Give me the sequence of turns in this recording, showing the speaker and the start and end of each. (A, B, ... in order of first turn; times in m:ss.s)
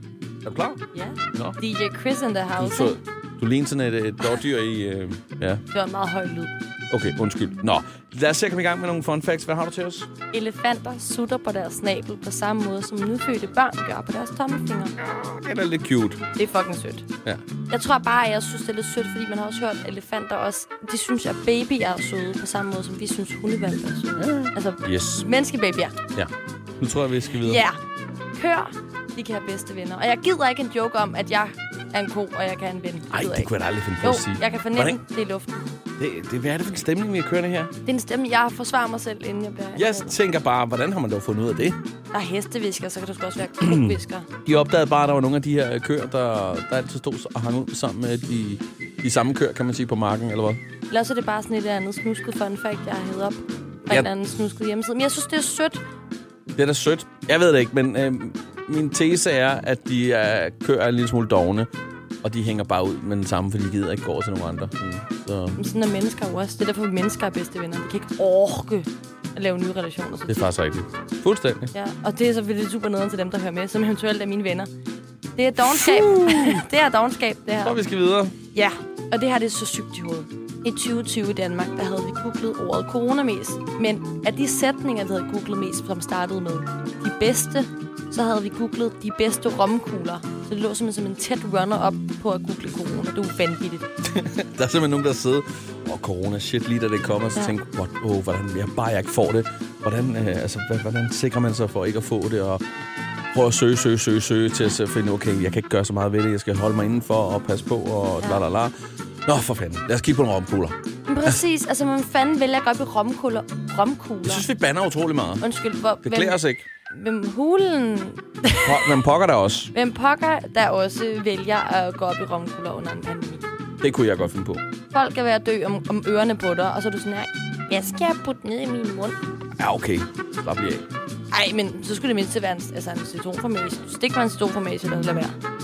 0:00.4-0:00.8 A
0:00.9-0:03.0 B
0:02.6-0:05.6 A
0:05.7-0:06.5 B
0:06.9-0:10.1 A
0:10.3-0:15.0 B
0:15.0-0:16.3 A
0:16.3-0:17.0 B
0:17.7-0:26.0 B
0:24.2-0:25.2 A
0:26.1-0:27.6 A
0:27.3-0:27.8 B
0:28.3-0:35.6 B
0:33.1-0:35.0 A
0:36.0-0:37.7 A
0:37.8-0:40.2 B
0:39.8-0:41.8 A
0:42.1-0:44.3 B
0:43.6-0:50.6 A
0:50.9-0:55.8 B
0:56.6-1:01.7 A
1:02.2-1:05.6 A
1:05.6-1:10.5 B
1:10.3-1:11.7 A
1:11.7-1:14.7 B
1:15.4-1:17.8 B
1:15.6-1:16.6 A
1:17.6-1:18.3 A
1:18.5-1:33.9 B
1:34.0-1:42.6 A
1:43.3-1:48.7 A
1:49.2-1:51.4 A
1:51.0-1:54.5 B
1:54.2-1:55.4 A
1:55.4-1:58.7 B
1:56.0-1:56.6 A
1:58.6-1:59.7 A
1:59.7-2:03.4 B
2:03.8-2:04.6 A
2:04.9-2:09.2 B
2:09.6-2:10.8 A
2:11.3-2:15.4 B